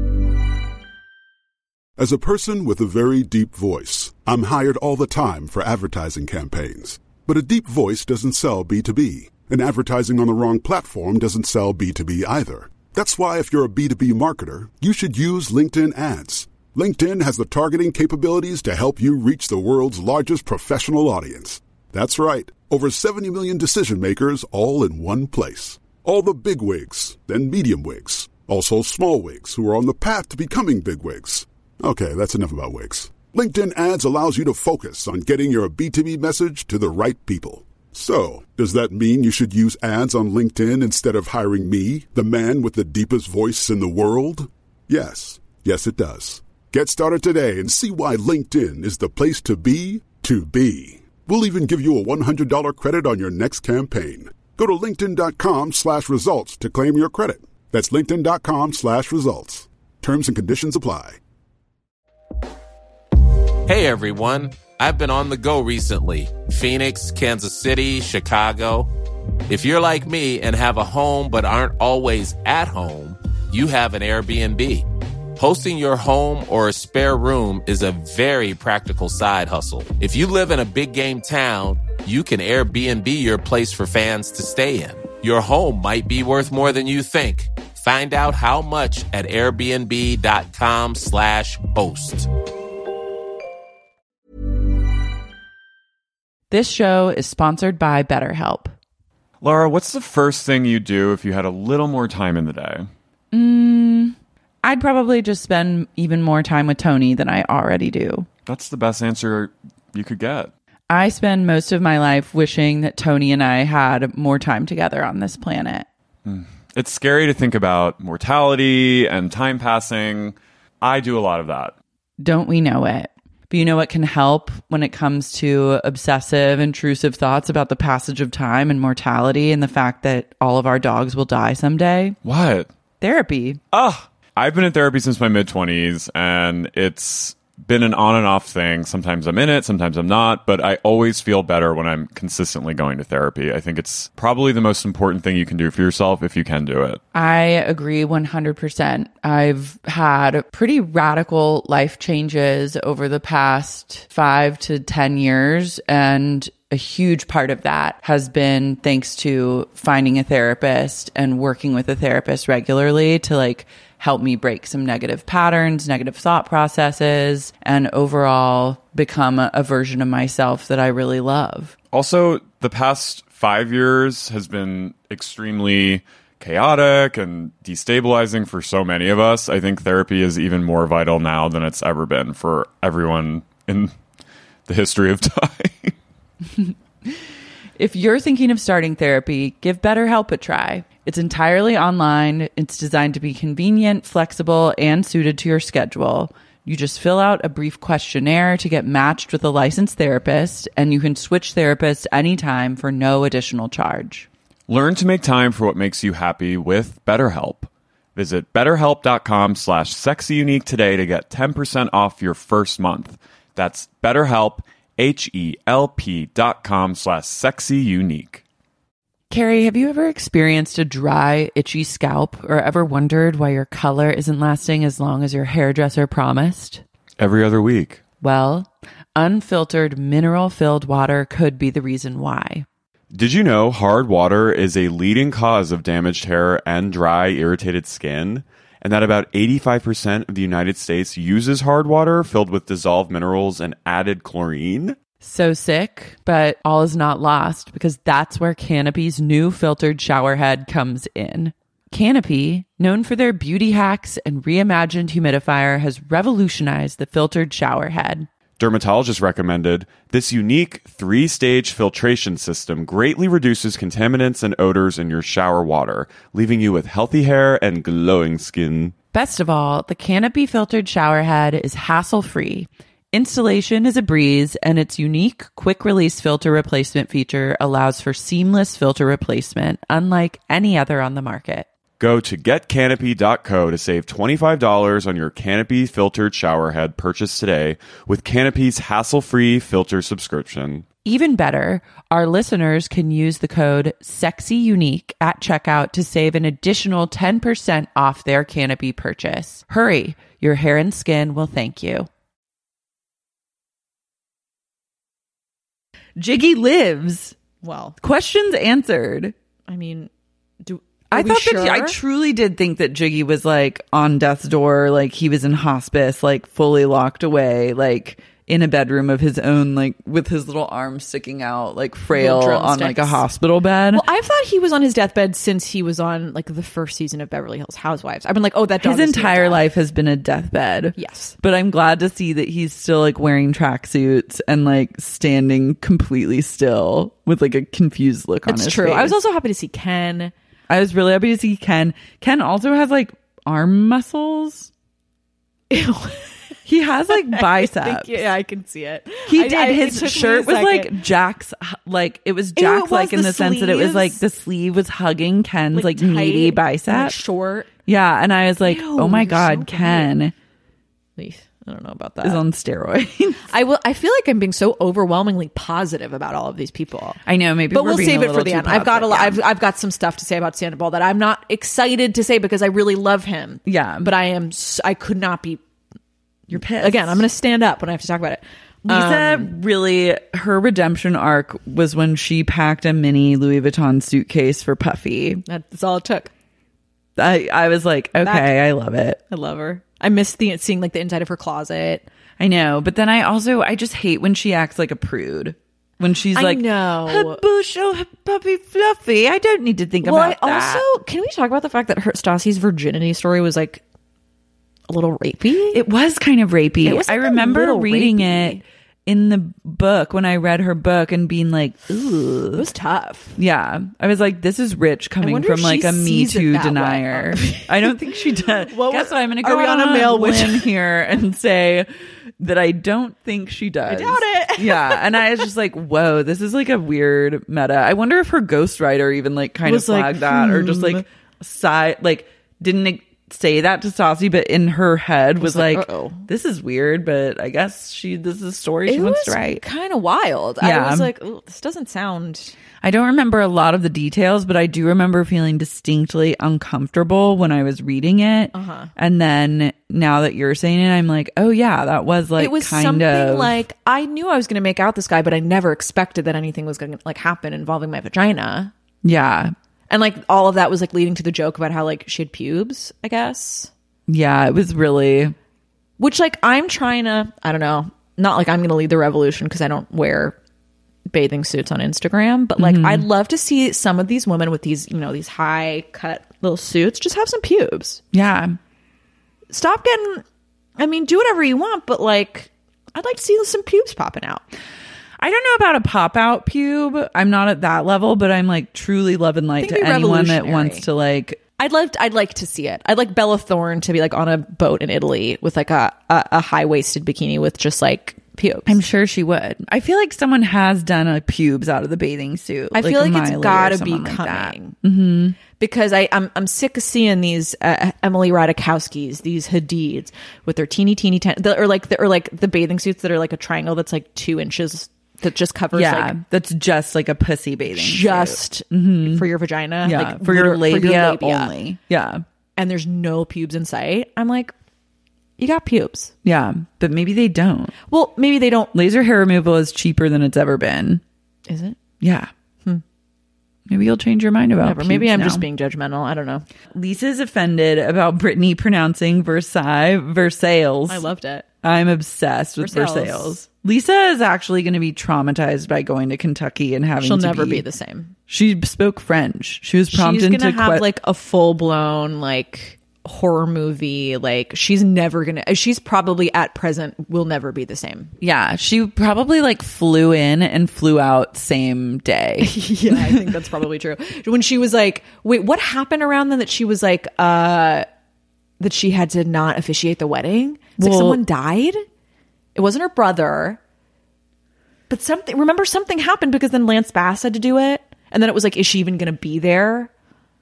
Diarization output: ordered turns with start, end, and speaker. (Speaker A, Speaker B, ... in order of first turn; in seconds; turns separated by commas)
Speaker A: 2.0-61.2, Speaker B: 63.7-68.9, Speaker B: 69.5-92.3, Speaker C: 96.5-98.7, Speaker D: 99.4-102.9, Speaker C: 103.3-108.3, Speaker D: 108.5-110.5, Speaker C: 110.9-115.9, Speaker D: 116.2-121.7, Speaker C: 122.2-132.2, Speaker D: 132.2-132.7, Speaker C: 133.0-133.6, Speaker D: 133.7-147.0, Speaker C: 147.1-171.7, Speaker D: 171.9-183.9, Speaker D: 184.7-185.9, Speaker C: 186.6-187.1, Speaker C: 187.8-204.3, Speaker D: 204.7-218.4, Speaker C: 219.3-226.8, Speaker D: 227.2-228.0, Speaker C: 228.2-232.7, Speaker D: 233.1-245.0, Speaker C: 245.2-258.3, Speaker D: 258.6-268.9, Speaker C: 269.1-281.7, Speaker D: 282.0-290.8, Speaker C: 291.0-302.1, Speaker C: 306.2-307.4, Speaker E: 307.6-307.9, Speaker C: 308.0-309.3, Speaker E: 309.7-310.1, Speaker E: 310.6-312.0, Speaker C: 311.1-324.1, Speaker E: 322.1-323.2, Speaker E: 323.9-329.6, Speaker C: 328.8-339.1, Speaker E: 331.0-331.3, Speaker E: 338.5-340.3, Speaker C: 340.7-344.7, Speaker E: 345.7-346.3, Speaker C: 346.6-348.2, Speaker E: 347.1-351.0, Speaker C: 349.3-357.2, Speaker E: 352.6-354.2, Speaker E: 355.7-357.7, Speaker C: 357.8-360.3, Speaker E: 358.6-360.1, Speaker E: 361.2-362.4, Speaker C: 362.2-363.4, Speaker E: 363.5-367.2, Speaker C: 367.2-369.4, Speaker E: 367.7-375.6, Speaker C: 373.6-374.1, Speaker C: 376.5-377.2, Speaker E: 376.5-379.5, Speaker C: 378.9-385.4, Speaker E: 385.5-386.3, Speaker C: 387.2-389.2, Speaker E: 388.2-388.6, Speaker E: 389.3-392.0, Speaker C: 392.4-400.9, Speaker E: 396.3-397.4, Speaker E: 400.0-403.8, Speaker E: 404.9-405.8, Speaker C: 405.7-412.6, Speaker E: 406.8-408.6, Speaker E: 412.5-413.4, Speaker C: 413.4-421.9, Speaker E: 415.2-417.9, Speaker E: 418.6-420.7, Speaker C: 422.4-439.6, Speaker E: 423.9-425.4, Speaker E: 429.6-431.0, Speaker E: 435.4-436.2, Speaker E: 438.9-442.6, Speaker C: 440.6-441.1, Speaker C: 442.8-453.5, Speaker E: 448.5-448.9, Speaker E: 452.4-458.7, Speaker C: 459.0-459.5, Speaker E: 459.9-463.7, Speaker C: 464.1-465.3, Speaker E: 466.0-470.4, Speaker E: 471.1-478.0, Speaker C: 472.6-473.1, Speaker C: 478.1-478.6, Speaker E: 479.5-480.2, Speaker E: 480.8-484.4, Speaker C: 485.2-491.4, Speaker E: 489.6-490.9, Speaker E: 491.6-498.8, Speaker C: 498.7-505.4, Speaker E: 502.7-504.8, Speaker E: 505.6-516.1, Speaker C: 515.7-519.3, Speaker E: 517.7-521.5, Speaker C: 519.8-522.2, Speaker E: 522.6-524.5, Speaker E: 525.4-526.1, Speaker C: 526.2-527.7, Speaker E: 527.9-528.7, Speaker C: 528.7-531.0, Speaker E: 531.5-531.8, Speaker C: 532.0-532.3, Speaker C: 533.7-535.4, Speaker E: 534.6-536.4, Speaker C: 536.7-541.0, Speaker E: 540.9-541.5, Speaker C: 541.6-547.6, Speaker E: 542.6-543.4, Speaker E: 547.0-548.1, Speaker C: 548.3-550.9, Speaker E: 549.9-558.1, Speaker C: 558.2-563.3, Speaker E: 562.4-567.9, Speaker E: 568.6-571.8, Speaker C: 570.8-571.2, Speaker E: 572.5-573.6, Speaker E: 574.9-579.9